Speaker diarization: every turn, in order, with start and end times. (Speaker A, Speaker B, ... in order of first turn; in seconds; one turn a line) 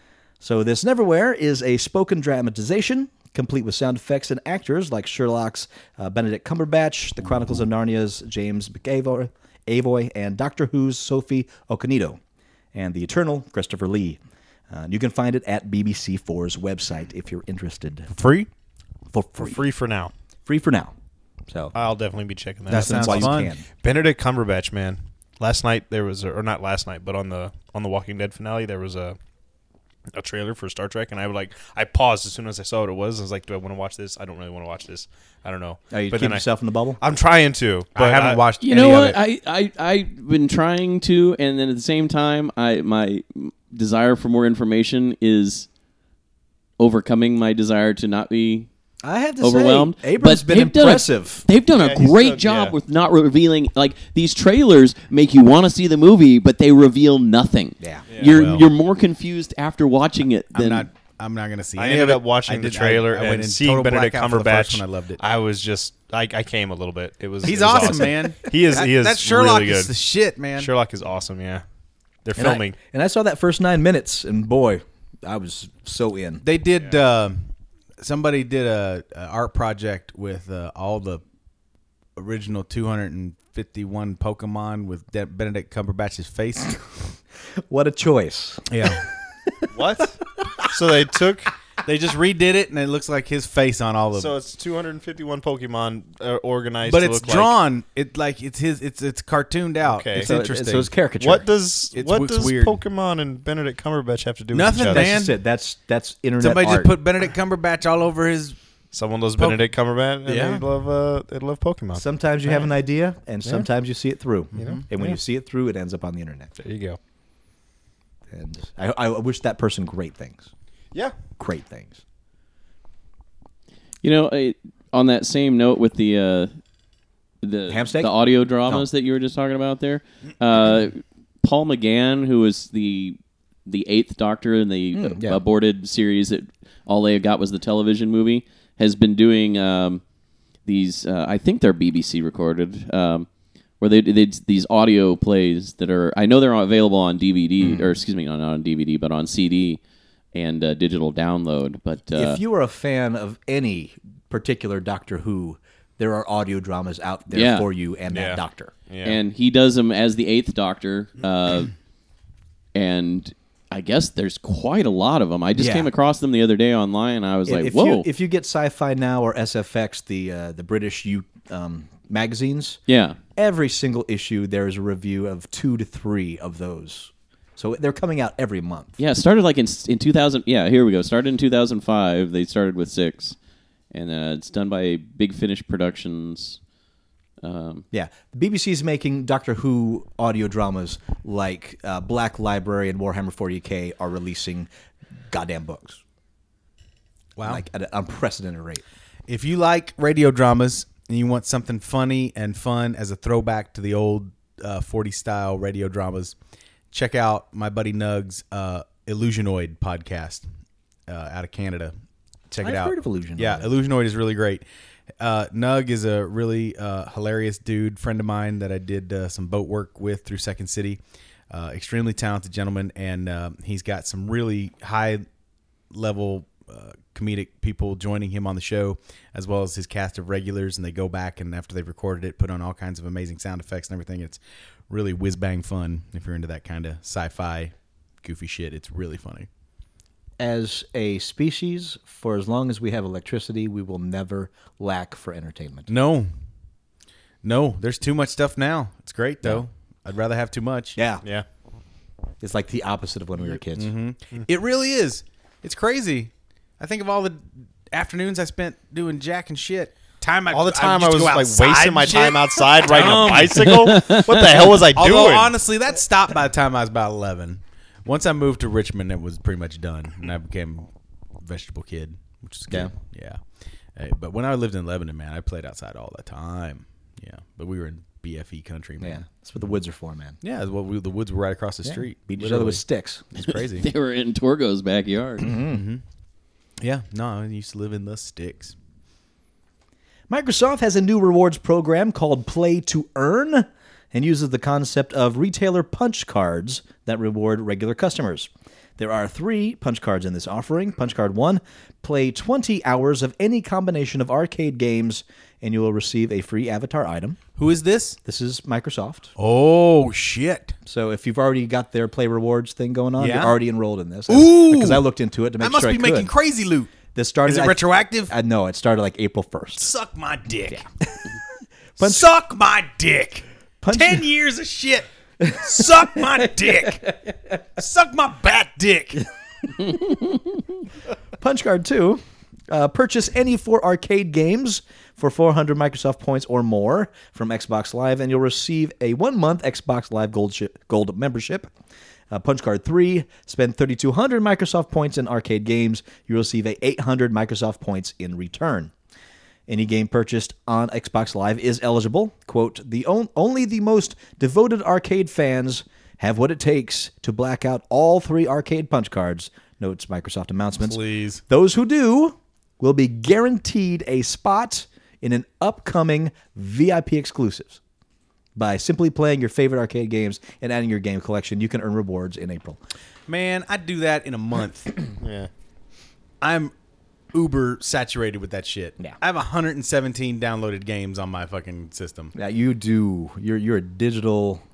Speaker A: 0.4-12.2
Speaker A: 12.7-18.1
Speaker B: 18.2-18.5
Speaker A: 19.1-19.6
Speaker C: 19.4-20.1
Speaker A: 20.4-20.9
Speaker A: 21.5-21.7
Speaker C: 21.7-29.2
Speaker B: 22.7-23.5
Speaker A: 22.7-23.6
Speaker C: 30.1-36.4
Speaker A: 35.9-37.0
Speaker C: 37.0-38.4
Speaker B: 38.0-39.2
Speaker D: 38.6-45.7
Speaker D: 46.8-48.7
Speaker A: 49.0-51.4
Speaker D: 49.4-60.9
Speaker C: 51.7-52.8
Speaker A: 57.8-58.0
Speaker C: 58.1-58.4
Speaker B: 58.3-58.7
Speaker B: 60.5-65.2
Speaker C: 61.8-69.9
Speaker B: 67.4-70.7
Speaker C: 70.6-71.6
Speaker C: 72.2-72.7
Speaker A: 72.3-76.4
Speaker B: 76.4-77.5
Speaker B: 78.0-81.2
Speaker B: 82.2-87.1
Speaker A: 87.7-89.0
Speaker B: 88.7-89.0
Speaker C: 89.7-91.5
Speaker B: 91.8-94.3
Speaker C: 94.1-97.5
Speaker B: 96.8-100.9
Speaker C: 99.9-100.4
Speaker A: 100.2-101.5
Speaker C: 101.2-105.1
Speaker B: 101.9-102.8
Speaker B: 104.5-105.4
Speaker A: 104.9-107.0
Speaker B: 106.4-108.6
Speaker C: 108.9-112.0
Speaker B: 109.4-109.7
Speaker B: 110.2-110.7
Speaker A: 111.9-116.5
Speaker B: 114.6-114.8
Speaker C: 114.6-115.2
Speaker C: 116.6-117.0
Speaker A: 118.3-120.5
Speaker A: 121.4-122.0
Speaker D: 124.0-126.5
Speaker D: 127.4-140.0
Speaker A: 127.7-128.9
Speaker A: 134.9-135.4
Speaker D: 140.6-143.3
Speaker D: 143.8-149.8
Speaker D: 150.3-152.4
Speaker A: 152.1-158.7
Speaker D: 157.3-157.7
Speaker C: 158.1-159.2
Speaker D: 159.0-161.7
Speaker D: 162.7-168.1
Speaker A: 165.6-165.9
Speaker A: 167.4-172.8
Speaker D: 172.9-173.2
Speaker A: 173.3-178.9
Speaker D: 179.0-183.4
Speaker D: 183.9-186.6
Speaker D: 187.4-187.8
Speaker A: 187.9-194.7
Speaker A: 195.3-196.0
Speaker B: 197.4-197.6
Speaker A: 197.4-198.8
Speaker B: 199.3-206.3
Speaker B: 206.9-210.4
Speaker B: 211.1-211.9
Speaker B: 212.5-214.6
Speaker A: 212.6-213.7
Speaker B: 215.2-225.2
Speaker B: 225.9-239.5
Speaker A: 240.4-245.9
Speaker B: 245.9-246.3
Speaker B: 247.4-251.0
Speaker A: 250.9-251.2
Speaker A: 252.4-253.9
Speaker B: 253.7-270.9
Speaker C: 260.5-265.5
Speaker B: 271.4-273.4
Speaker B: 273.9-279.4
Speaker A: 279.0-280.4
Speaker B: 280.4-283.9
Speaker A: 281.8-283.2
Speaker D: 283.4-285.5
Speaker A: 285.4-285.8
Speaker B: 285.5-286.0
Speaker B: 286.8-288.7
Speaker A: 290.3-307.4
Speaker B: 307.6-308.2
Speaker A: 308.2-309.3
Speaker B: 309.4-310.7
Speaker A: 310.9-316.3
Speaker B: 313.2-313.6
Speaker B: 314.3-315.0
Speaker B: 315.6-318.3
Speaker A: 317.1-319.9
Speaker B: 319.8-320.9
Speaker B: 322.0-327.1
Speaker A: 322.0-322.3
Speaker A: 323.8-324.2
Speaker A: 325.4-326.7
Speaker B: 327.8-329.2
Speaker A: 331.4-341.7
Speaker A: 342.3-348.9
Speaker A: 349.7-367.8
Speaker B: 360.8-361.4
Speaker A: 368.6-372.8
Speaker B: 373.3-374.9
Speaker C: 375.2-375.5
Speaker B: 376.4-376.7
Speaker B: 377.3-382.3
Speaker A: 382.3-384.6